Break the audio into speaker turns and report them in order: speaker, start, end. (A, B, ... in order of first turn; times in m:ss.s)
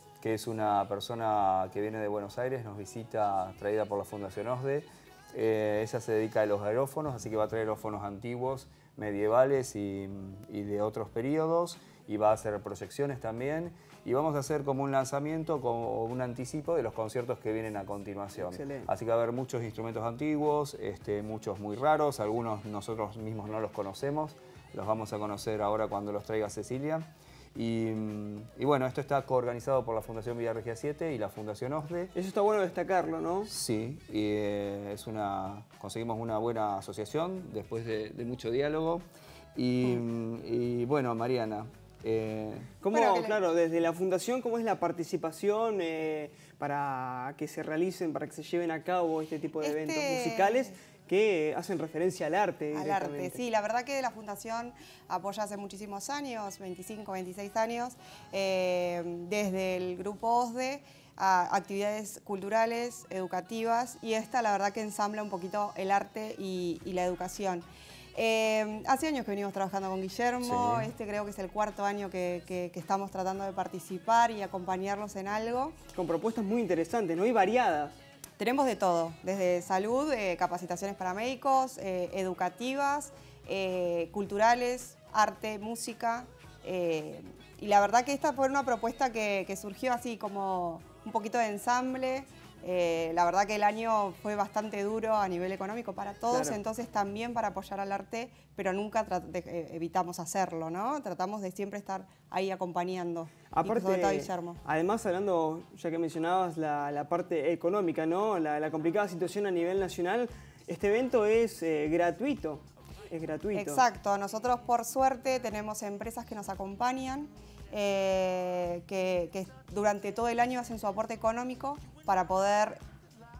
0:00.2-0:32.1 A
0:18.4-0:18.9 B
0:32.2-0:33.5 B
0:33.5-0:39.0 A
0:39.6-0:42.7 A
0:42.8-0:53.4 B
0:42.9-0:43.4 C
0:49.6-0:50.7 C
0:52.7-1:15.8 C
1:10.4-1:10.9 A
1:15.9-1:18.0 B
1:18.4-1:44.6 C
1:36.3-1:36.6 B
1:43.5-1:53.8 B
1:53.5-2:02.8 C